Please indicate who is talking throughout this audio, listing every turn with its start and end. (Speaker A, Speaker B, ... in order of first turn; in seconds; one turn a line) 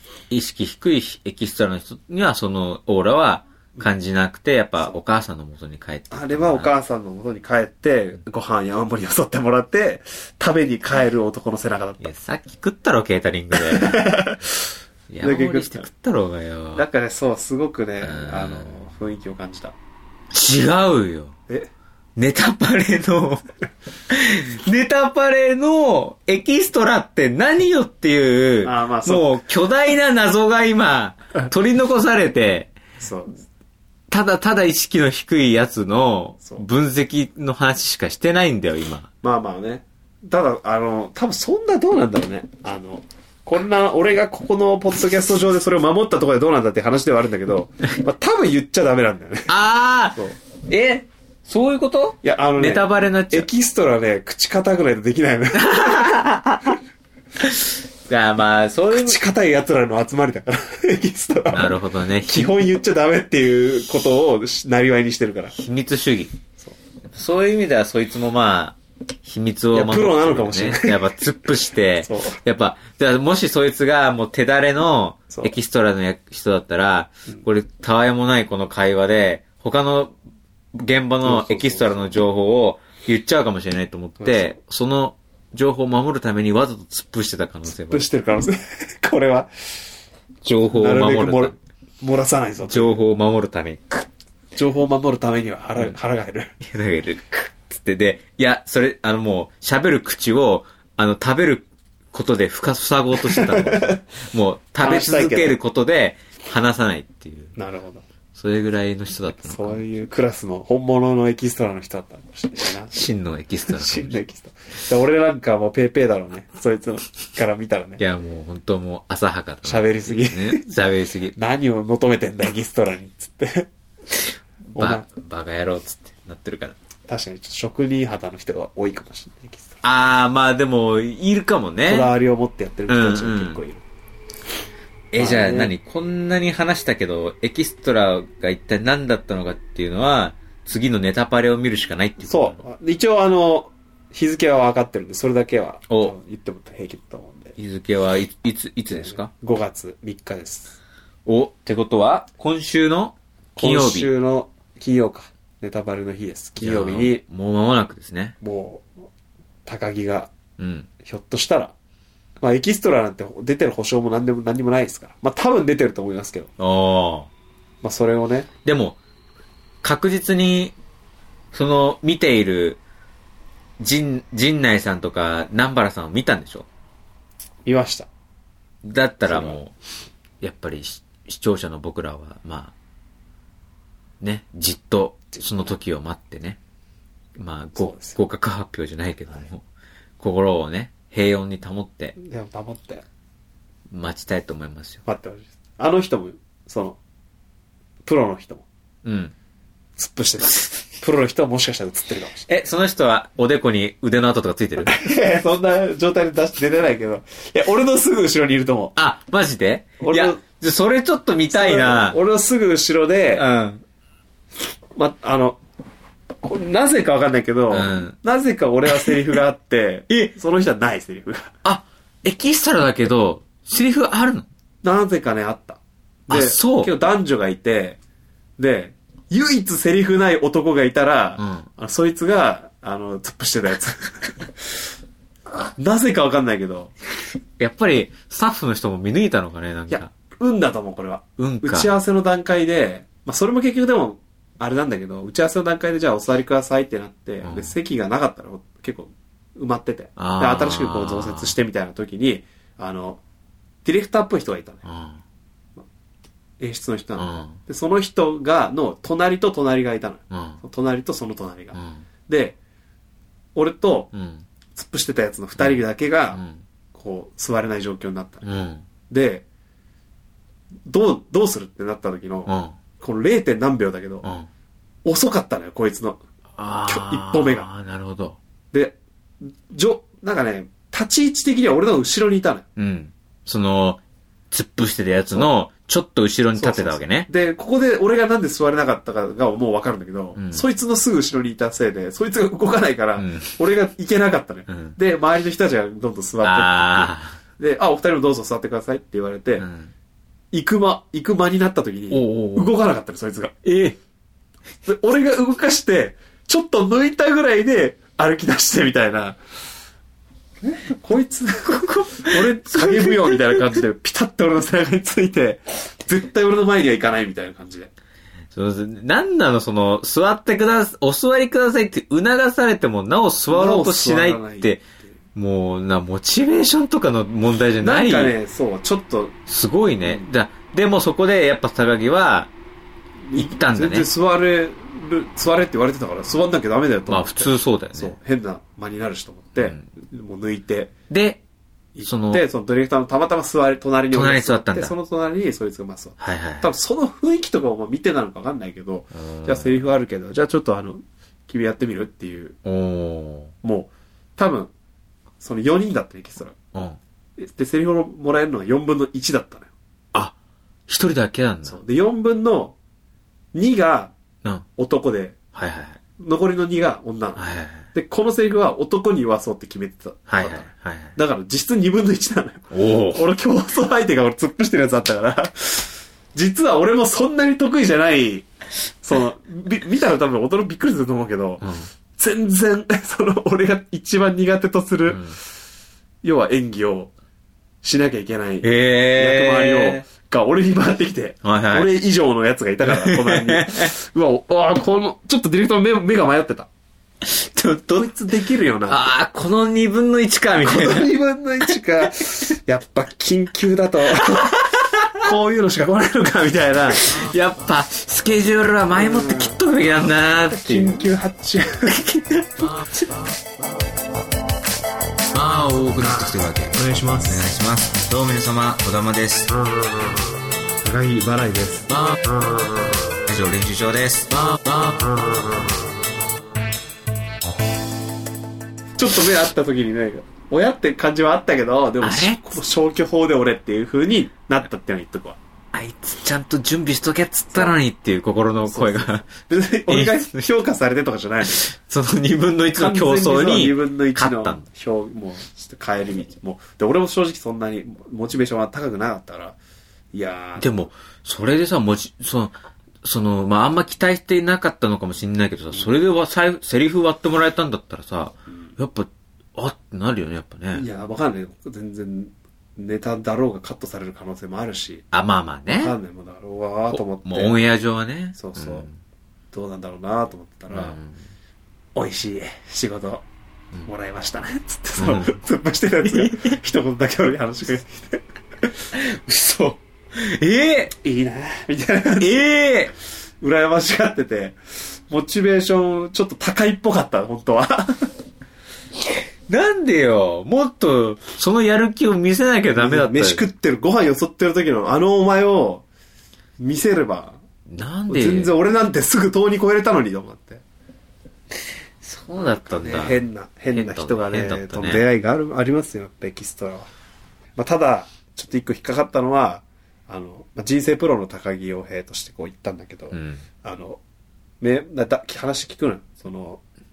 Speaker A: 0.3-6.7
Speaker B: 6.1-12.1
Speaker A: 12.0-14.2
Speaker B: 13.6-14.6
Speaker A: 15.1-16.9
Speaker B: 15.2-15.9
Speaker B: 16.8-19.8
Speaker A: 18.0-18.8
Speaker A: 20.3-21.4
Speaker A: 22.2-23.5
Speaker A: 24.1-32.7
Speaker B: 28.6-29.4
Speaker B: 33.0-33.4
Speaker A: 34.1-39.1
Speaker B: 39.2-49.5
Speaker A: 49.5-53.5
Speaker B: 52.2-56.2
Speaker A: 55.5-56.8
Speaker A: 57.4-59.2
Speaker B: 58.9-65.5
Speaker A: 61.5-62.6
Speaker A: 65.6-66.4
Speaker A: 67.1-80.1
Speaker B: 69.7-71.2
Speaker B: 72.0-72.4
Speaker A: 80.8-88.1
Speaker B: 81.2-82.1
Speaker B: 84.2-84.6
Speaker B: 87.7-89.5
Speaker A: 90.4-91.6
Speaker B: 90.7-93.0
Speaker A: 92.7-94.1
Speaker B: 94.5-96.5
Speaker A: 96.6-107.6
Speaker B: 103.2-104.0
Speaker B: 104.8-105.6
Speaker B: 107.6-108.0
Speaker A: 108.3-109.8
Speaker B: 109.4-113.0
Speaker A: 112.6-114.2
Speaker B: 113.7-118.0
Speaker A: 118.0-121.4
Speaker B: 119.7-120.7
Speaker B: 121.3-123.7
Speaker A: 124.7-126.8
Speaker B: 124.8-125.0
Speaker B: 127.1-129.8
Speaker A: 129.8-132.1
Speaker B: 131.8-133.8
Speaker A: 132.9-133.6
Speaker A: 135.1-142.6
Speaker B: 135.2-135.7
Speaker B: 142.2-147.6
Speaker A: 145.9-146.2
Speaker A: 147.6-149.3
Speaker B: 148.9-150.8
Speaker A: 151.3-154.1
Speaker B: 153.6-157.2
Speaker A: 156.6-158.3
Speaker B: 158.4-158.9
Speaker B: 159.7-160.3
Speaker A: 160.6-160.9
Speaker B: 161.0-161.7
Speaker B: 162.4-166.5
Speaker A: 166.6-167.3
Speaker B: 167.8-168.5
Speaker A: 168.7-169.0
Speaker A: 169.8-170.8
Speaker A: 171.5-172.8
Speaker A: 173.8-176.7
Speaker B: 177.7-178.1
Speaker A: 178.8-179.8
Speaker B: 179.3-179.6
Speaker A: 180.4-182.7
Speaker A: 184.2-186.6
Speaker A: 187.4-189.6
Speaker B: 187.8-188.2
Speaker A: 190.2-192.2
Speaker B: 192.2-193.1
Speaker A: 193.9-195.0
Speaker B: 195.1-197.0
Speaker B: 198.1-198.7
Speaker A: 199.0-199.3
Speaker B: 200.0-202.5
Speaker A: 202.5-205.0
Speaker B: 204.8-209.0
Speaker A: 209.0-212.2
Speaker B: 210.0-210.4
Speaker B: 211.5-213.4
Speaker A: 213.3-213.8
Speaker B: 214.9-215.6
Speaker B: 216.4-221.5
Speaker A: 217.7-218.2
Speaker A: 221.6-224.5
Speaker B: 224.8-228.0
Speaker A: 226.3-226.9
Speaker B: 228.6-234.8
Speaker A: 231.4-231.7
Speaker B: 235.5-236.9
Speaker A: 237.6-240.1
Speaker B: 239.9-253.2
Speaker A: 241.4-241.9
Speaker A: 247.4-247.8
Speaker A: 250.2-251.6
Speaker B: 253.8-254.8
Speaker A: 254.8-255.2
Speaker B: 256.6-262.6
Speaker A: 257.2-257.6
Speaker A: 260.3-260.6
Speaker A: 261.7-262.0
Speaker B: 263.6-264.1
Speaker A: 264.1-264.5
Speaker B: 264.8-266.4
Speaker A: 265.6-266.6
Speaker B: 266.9-268.4
Speaker A: 268.4-268.9
Speaker B: 269.1-269.4
Speaker B: 270.9-274.3
Speaker A: 272.5-272.8
Speaker A: 274.2-274.5
Speaker B: 275.1-276.2
Speaker A: 276.6-278.4
Speaker B: 276.9-277.7
Speaker B: 278.7-282.7
Speaker A: 282.8-287.3
Speaker B: 286.6-299.7
Speaker A: 290.4-290.7
Speaker A: 293.2-293.6
Speaker A: 294.7-295.0
Speaker A: 296.4-297.4
Speaker A: 299.6-299.9
Speaker B: 300.5-303.6
Speaker A: 302.1-302.7
Speaker A: 303.6-304.0
Speaker B: 304.9-309.4
Speaker B: 310.6-317.9
Speaker A: 311.7-313.8
Speaker A: 318.5-324.8
Speaker B: 323.5-325.1
Speaker A: 325.4-328.4
Speaker B: 327.8-329.4
Speaker A: 329.5-332.5
Speaker B: 330.0-330.3
Speaker B: 333.3-340.9
Speaker A: 333.4-334.1
Speaker A: 337.1-338.2
Speaker A: 339.6-339.9
Speaker A: 341.1-341.4
Speaker B: 341.9-352.6
Speaker A: 342.0-342.4
Speaker A: 344.1-344.9
Speaker A: 346.2-346.7
Speaker A: 349.1-349.9
Speaker A: 352.6-353.5
Speaker B: 353.6-354.7
Speaker B: 355.4-356.6
Speaker A: 356.7-357.0
Speaker B: 357.4-359.7
Speaker A: 360.9-361.8
Speaker B: 361.6-362.8
Speaker B: 363.5-364.1
Speaker B: 364.8-365.4
Speaker A: 365.5-366.0
Speaker B: 366.2-378.5
Speaker A: 367.4-367.9
Speaker A: 370.3-371.1
Speaker A: 372.7-373.2
Speaker B: 379.0-381.6
Speaker A: 381.6-381.9
Speaker B: 382.2-385.2
Speaker A: 385.1-385.4
Speaker B: 386.2-387.1
Speaker B: 387.8-396.7
Speaker A: 388.6-390.1
Speaker A: 391.4-391.9
Speaker A: 392.8-393.9
Speaker A: 397.2-398.1
Speaker B: 398.0-399.1
Speaker A: 398.9-401.1
Speaker B: 400.6-407.3
Speaker A: 404.2-405.2
Speaker A: 406.9-411.1
Speaker B: 408.9-409.6
Speaker B: 410.5-412.7
Speaker A: 412.6-413.1
Speaker A: 415.3-419.5
Speaker B: 416.7-417.5
Speaker B: 419.5-423.2
Speaker A: 423.3-424.4
Speaker B: 424.7-426.1
Speaker B: 429.0-435.4
Speaker A: 432.0-432.6
Speaker A: 435.7-439.3
Speaker B: 438.7-441.7
Speaker A: 439.9-440.4
Speaker A: 441.5-444.6
Speaker B: 442.7-449.6
Speaker B: 450.1-450.8
Speaker A: 450.6-460.9
Speaker B: 460.8-465.1
Speaker A: 465.1-465.9
Speaker B: 465.7-467.6
Speaker A: 466.9-468.9
Speaker B: 468.4-468.9
Speaker B: 469.5-471.0
Speaker A: 470.7-471.2
Speaker B: 471.9-473.2
Speaker B: 473.9-478.7
Speaker A: 475.0-475.4
Speaker A: 476.1-476.6
Speaker A: 478.9-480.9
Speaker B: 481.0-482.4
Speaker A: 482.2-482.9
Speaker B: 483.4-484.6
Speaker B: 485.1-488.1
Speaker A: 489.5-493.4
Speaker B: 492.8-495.9
Speaker B: 496.6-497.4
Speaker A: 497.7-498.5
Speaker B: 498.1-500.6
Speaker A: 502.0-505.0
Speaker B: 502.4-506.9
Speaker B: 507.6-514.0
Speaker A: 513.1-513.5
Speaker B: 514.6-516.6